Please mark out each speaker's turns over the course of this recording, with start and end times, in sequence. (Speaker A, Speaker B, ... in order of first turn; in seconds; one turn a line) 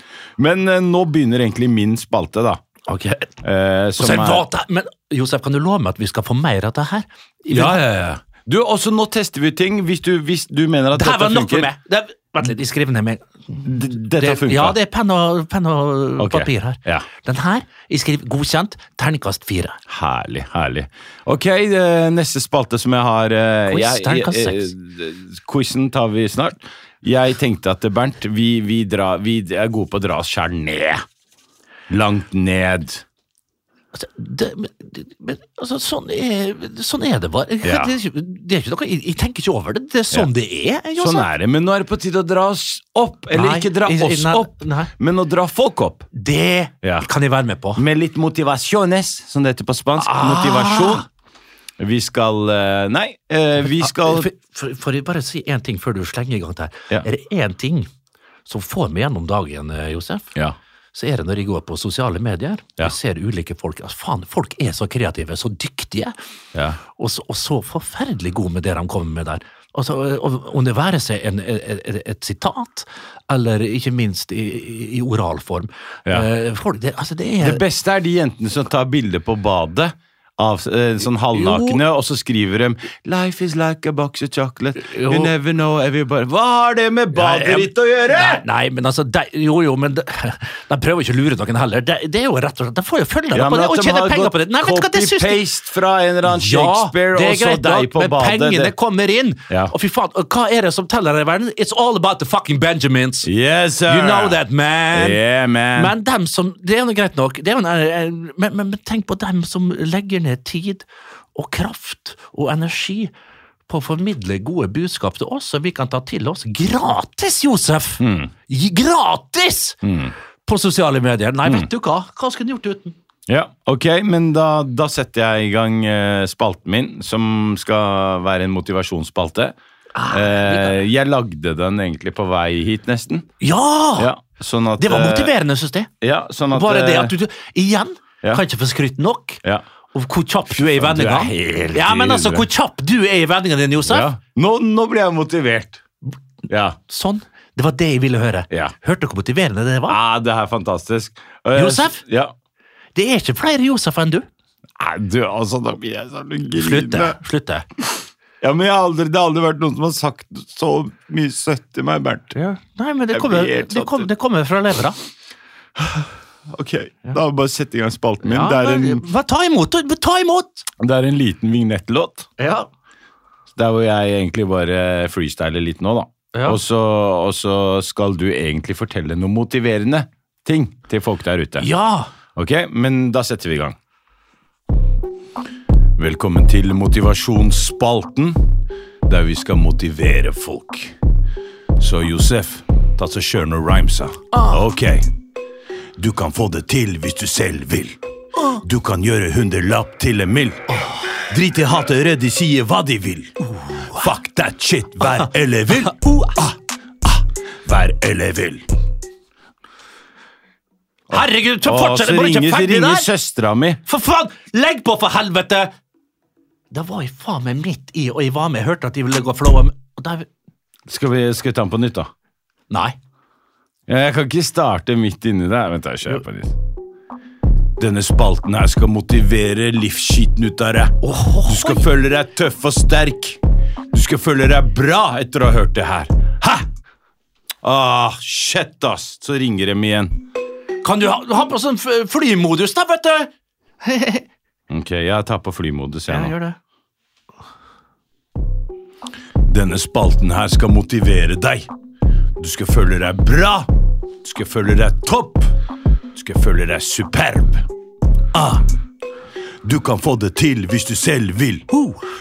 Speaker A: 0.4-2.6
Speaker B: 2.9-3.3
Speaker A: 3.4-4.4
Speaker B: 4.0-7.8
Speaker A: 7.5-11.7
Speaker B: 10.9-19.8
Speaker A: 13.6-14.8
Speaker A: 16.2-17.1
Speaker A: 19.9-31.0
Speaker B: 23.7-24.7
Speaker A: 31.9-33.0
Speaker B: 33.9-41.3
Speaker A: 37.6-37.9
Speaker A: 41.0-46.1
Speaker B: 43.3-44.9
Speaker B: 46.1-47.8
Speaker A: 47.8-51.0
Speaker B: 50.0-51.0
Speaker A: 51.8-54.3
Speaker B: 53.8-57.9
Speaker B: 58.5-60.3
Speaker B: 60.9-66.1
Speaker A: 66.5-66.8
Speaker B: 67.0-77.6
Speaker A: 77.4-88.4
Speaker B: 81.3-81.8
Speaker B: 84.8-85.3
Speaker B: 87.1-95.4
Speaker A: 93.3-98.7
Speaker B: 96.3-103.3
Speaker A: 103.2-104.4
Speaker B: 103.9-105.2
Speaker A: 104.9-105.9
Speaker B: 105.7-113.1
Speaker B: 113.7-119.8
Speaker A: 118.0-118.3
Speaker A: 119.8-120.1
Speaker B: 120.5-122.9
Speaker A: 123.3-129.6
Speaker B: 129.9-130.8
Speaker A: 130.1-133.3
Speaker B: 133.4-134.1
Speaker A: 134.0-135.3
Speaker B: 134.8-135.9
Speaker A: 136.0-137.1
Speaker B: 136.5-139.4
Speaker B: 139.9-144.1
Speaker A: 140.5-142.5
Speaker A: 143.9-145.8
Speaker A: 146.5-146.8
Speaker B: 146.9-150.0
Speaker A: 149.9-152.3
Speaker B: 151.5-152.0
Speaker B: 152.9-154.2
Speaker A: 154.8-157.2
Speaker B: 156.6-157.7
Speaker A: 158.4-162.3
Speaker B: 162.3-165.0
Speaker A: 163.1-164.1
Speaker A: 165.8-169.0
Speaker B: 168.2-170.7
Speaker A: 170.8-172.3
Speaker B: 172.4-172.7
Speaker A: 173.5-181.7
Speaker B: 176.3-176.6
Speaker B: 181.6-182.1
Speaker A: 182.3-183.8
Speaker A: 186.0-188.4
Speaker A: 189.0-190.9
Speaker A: 191.8-195.1
Speaker B: 194.3-194.6
Speaker A: 196.0-198.0
Speaker B: 198.3-198.6
Speaker A: 198.6-200.6
Speaker B: 200.7-201.1
Speaker A: 201.3-203.3
Speaker B: 203.4-204.1
Speaker A: 203.9-208.6
Speaker B: 205.1-206.3
Speaker A: 211.1-213.8
Speaker B: 211.1-213.1
Speaker B: 213.8-215.7
Speaker B: 216.7-220.3
Speaker A: 220.9-222.1
Speaker B: 222.7-223.0
Speaker A: 223.9-226.5
Speaker A: 227.8-233.4
Speaker B: 231.0-231.8
Speaker A: 233.9-236.6
Speaker A: 237.6-240.1
Speaker B: 240.8-243.3
Speaker B: 243.8-244.2
Speaker A: 244.7-246.3
Speaker B: 246.1-246.6
Speaker A: 249.5-251.7
Speaker A: 252.4-253.7
Speaker A: 254.2-255.5
Speaker A: 256.1-257.6
Speaker B: 258.3-258.6
Speaker A: 259.6-261.6
Speaker B: 261.7-262.0